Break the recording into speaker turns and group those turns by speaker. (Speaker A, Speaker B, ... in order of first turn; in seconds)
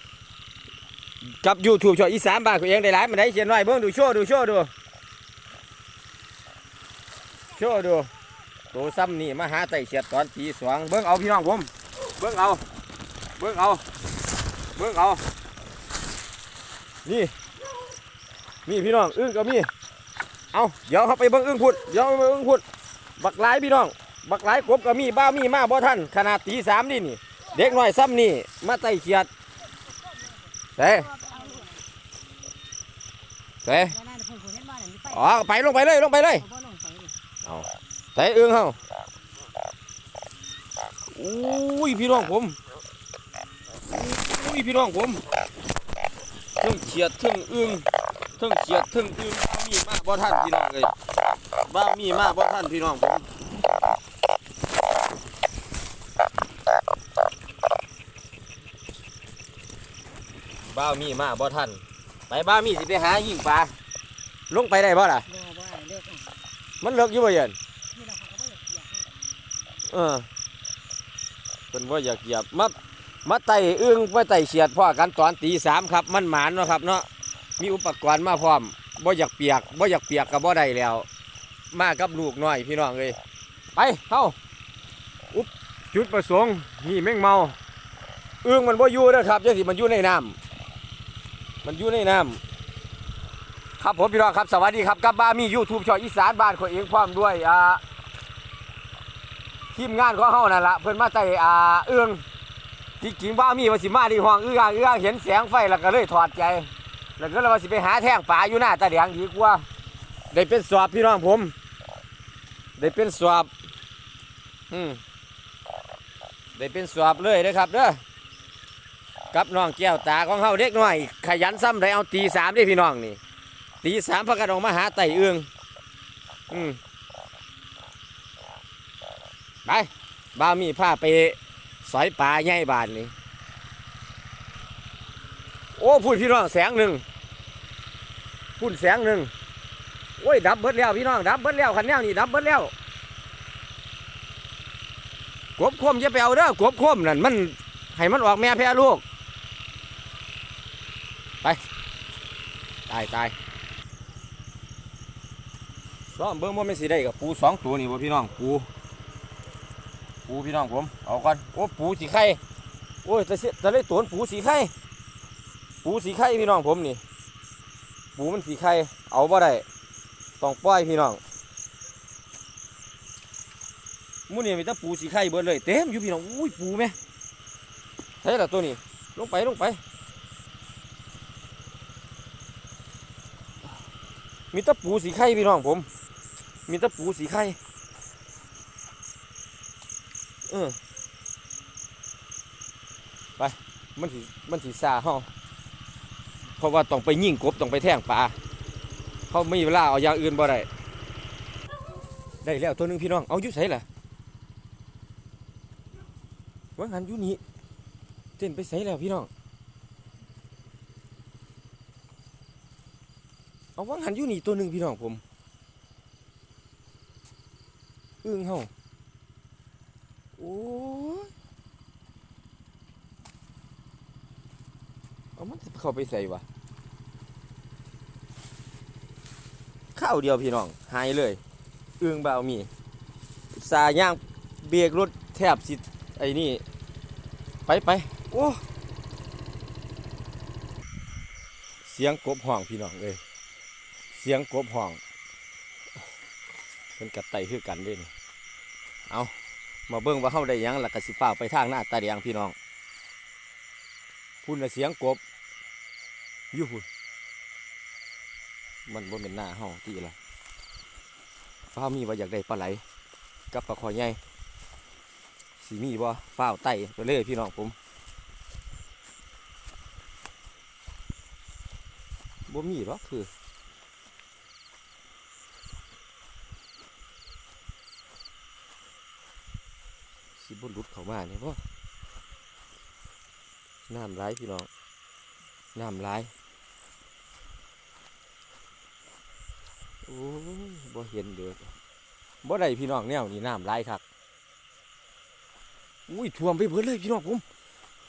Speaker A: 1.2-4.7, 7.5-8.1, 8.7-12.6, 13.4-13.8, 14.8-15.2, 17.1-17.3, 18.7-19.7, 20.5-22.6, 23.2-29.3, 30.8-31.2, 33.6-34.0, 35.0-36.5, 37.4-38.8, 41.1-42.6, 43.9-45.2, 46.6-47.9, 48.4-51.0, 51.6-53.3, 60.6-63.8, 64.5-65.3, 66.8-67.6, 69.9-70.3, 71.7-77.1, 77.6-81.1, 81.7-83.2, 83.8-84.3, 85.3-87.6, 88.4-90.4, 91.6-92.4, 93.8-97.8, 99.7-102.2, 103.0-109.7, 110.3-111.5, 112.8-113.5, 114.7-115.0, 116.5-118.0, 119.3-123.2, 123.8-125.5, 126.5-126.8, 129.7-133.1, 135.8-137.0, 138.6-139.3, 140.2-142.7, 145.6-149.0, 152.9-153.3, 156.1-158.7, 160.3-162.4, 163.0-164.7, 165.8-167.0, 168.2-169.7, 170.4-171.2, 174.3-177.0, 178.2-179.8, 184.5-185.9, 186.7-187.6, 190.5-190.8, 193.4-195.3, 196.6-198.4, 199.3-200.7, 202.4-203.8, 206.8-207.4, 208.4-209.3, 213.8-215.2, 218.2-218.7, 220.4-221.3, 225.4-226.4, 229.9-231.4, 232.0-232.7, 233.5-236.6, 237.7-238.6, 241.8-243.2, 244.1-245.0, 247.0-248.1, 249.9-252.6, 254.4-255.2, 256.5-256.9, 258.9-260.2, 261.7-262.8, 263.5-264.2, 265.6-267.8, 272.5-273.3, 280.4-281.6, 283.9-284.7, 285.8-286.3, 290.1-291.7, 292.4-294.0, 296.1-297.4
Speaker B: 31.3-31.8, 34.1-35.0, 36.5-37.1, 65.4-66.3, 68.0-69.1